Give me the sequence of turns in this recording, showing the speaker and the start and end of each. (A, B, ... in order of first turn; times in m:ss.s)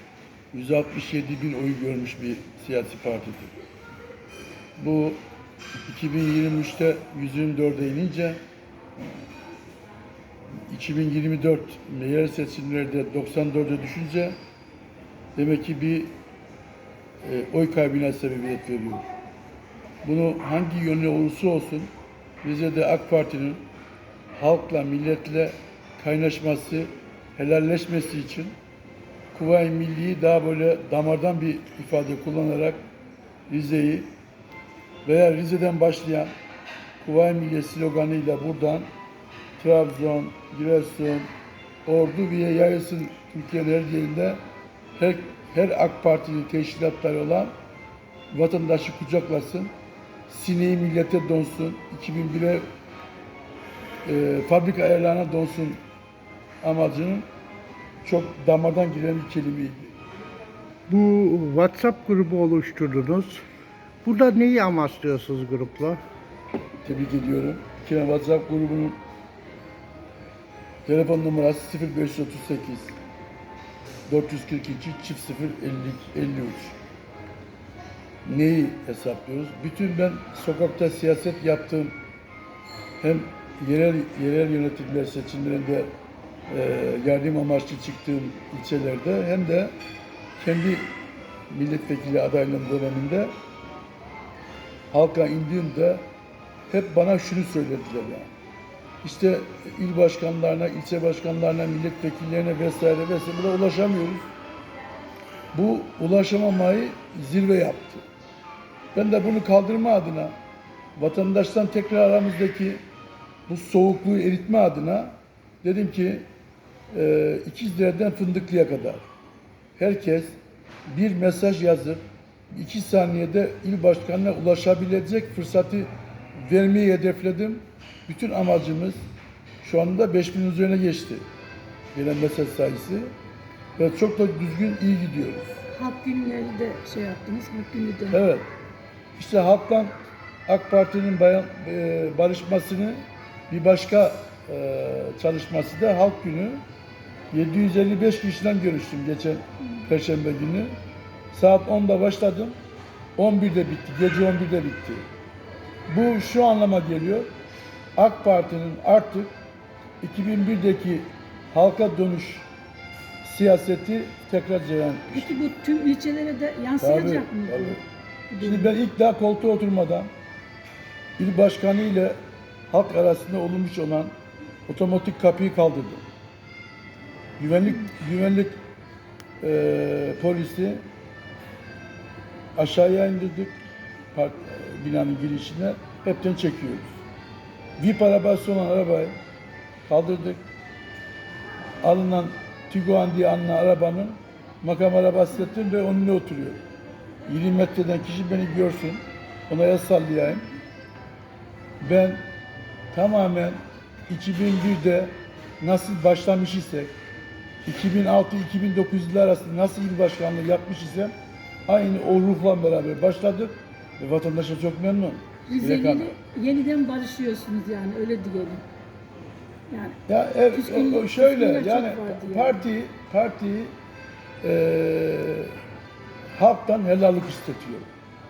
0:00.5-0:03.5 A
0:04.8-0:05.2 A
0:05.8-0:08.4 A
0:10.7-0:14.4 A
0:15.4-0:16.1 A
0:17.2-0:19.1 A
0:20.0-0:21.9 A
0:22.4-0:23.7 A
0:24.3-0:28.6 A
0:29.3-0:32.8 A
0:33.5-0:34.1 A
0:35.0-0:36.3 A
0:37.0-0:38.9 A
0:39.6-0:41.3 A
0:41.9-0:44.4 A
0:45.0-0:47.5 A
0:48.3-0:49.7 A
0:50.3-0:52.6 A
0:54.0-0:55.8 A
0:56.6-0:57.3 A
0:58.0-0:59.9 A
1:00.9-1:03.4 B
1:04.0-1:06.0 B
1:06.8-1:09.0 A
1:10.9-1:13.0 A
1:14.1-1:16.8 A
1:18.2-1:21.9 A
1:23.0-1:25.9 A
1:26.5-1:29.7 A
1:30.4-1:30.9 A
1:31.5-1:33.3 A
1:34.9-1:36.0 A
1:36.7-1:38.3 A
1:39.0-1:44.3 A
1:45.5-1:48.0 A
1:48.9-1:50.4 A
1:51.0-1:52.8 A
1:53.5-1:56.2 A
1:56.9-1:59.0 A
1:59.8-2:00.4 A
2:00.9-2:09.0 A
2:09.6-2:11.2 A
2:11.9-2:13.1 A
2:13.8-2:15.6 A
2:15.7-2:18.2 C
2:18.1-2:18.5 A
2:19.2-2:20.0 A
2:20.5-2:26.6 A
2:27.3-2:30.7 A
2:31.3-2:32.6 A
2:33.2-2:35.0 A
2:35.9-2:37.3 A
2:38.0-2:39.3 A
2:40.0-2:42.5 A
2:43.2-2:45.4 A
2:45.1-2:48.7 C
2:46.8-2:47.8 A
2:48.4-2:50.1 A
2:51.2-2:52.2 A
2:52.7-2:54.1 A
2:54.7-2:56.0 A
2:57.4-2:58.6 A
2:59.4-3:00.8 A
3:02.6-3:03.6 A
3:04.1-3:06.9 A
3:07.8-3:09.1 A
3:09.9-3:10.4 A
3:11.8-3:16.6 A
3:17.3-3:20.5 A
3:21.8-3:22.2 A
3:22.9-3:26.9 A
3:27.6-3:31.1 A
3:31.7-3:36.1 A
3:35.5-3:38.6 C
3:39.7-3:40.0 C
3:40.1-3:43.7 A
3:40.5-3:42.7 C
3:44.4-3:45.5 A
3:46.4-3:47.9 A